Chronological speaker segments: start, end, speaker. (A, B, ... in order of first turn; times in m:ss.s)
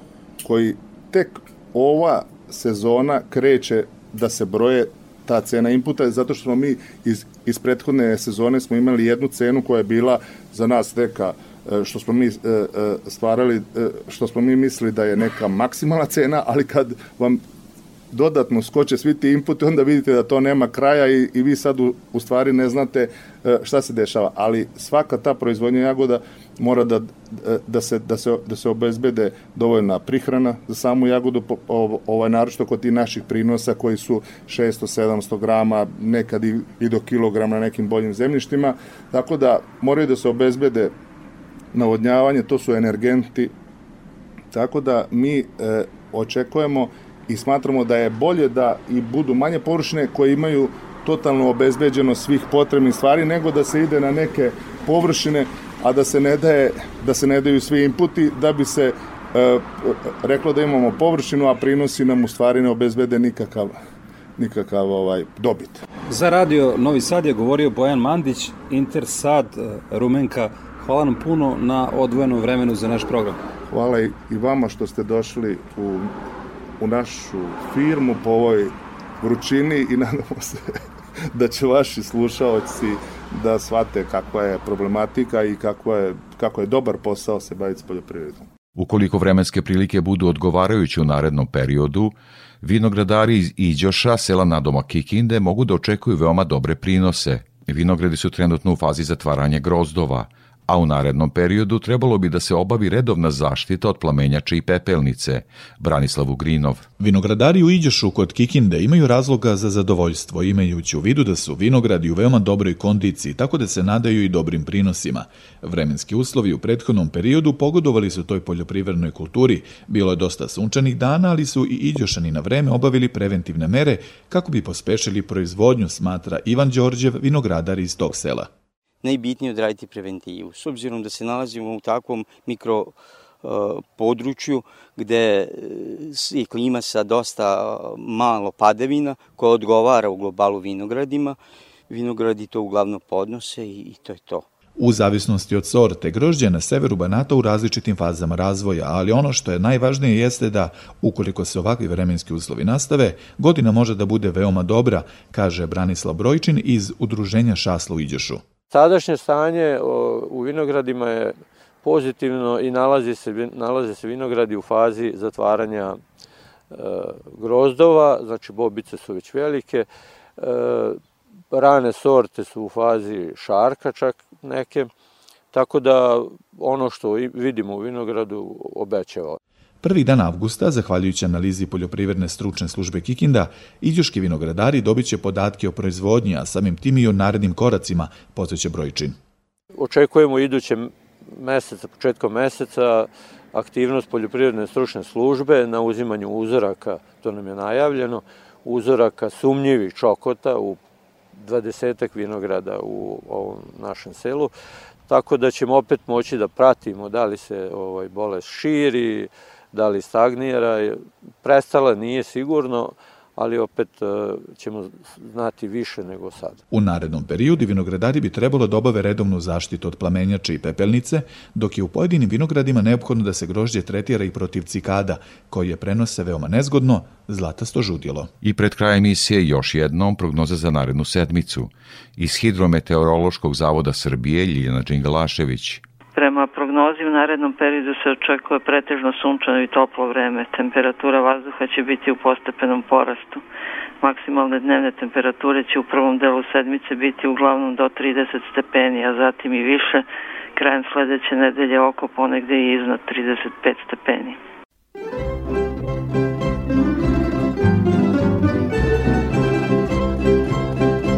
0:00.4-0:17.4 A
0:18.1-0:40.9 A
0:41.7-0:43.5 A
0:44.5-1:03.7 A
1:04.4-1:05.8 A
1:06.1-1:13.4 B
1:13.7-1:16.1 A
1:16.8-1:20.6 A
1:21.3-1:28.5 A
1:28.7-1:46.9 C
1:47.0-2:08.5 D
2:09.0-2:24.4 E
2:24.8-2:38.4 D
2:38.7-2:46.0 F
2:46.7-2:49.9 F
2:50.4-2:51.0 F
2:51.5-2:54.9 F
2:55.5-2:59.4 F
2:59.8-3:09.2 D
3:09.7-3:20.8 F
3:21.4-3:24.5 F
3:25.1-3:36.6 F
3:36.7-3:48.3 D
3:48.4-3:55.8 C
3:56.1-4:03.4 G
4:04.0-4:14.4 G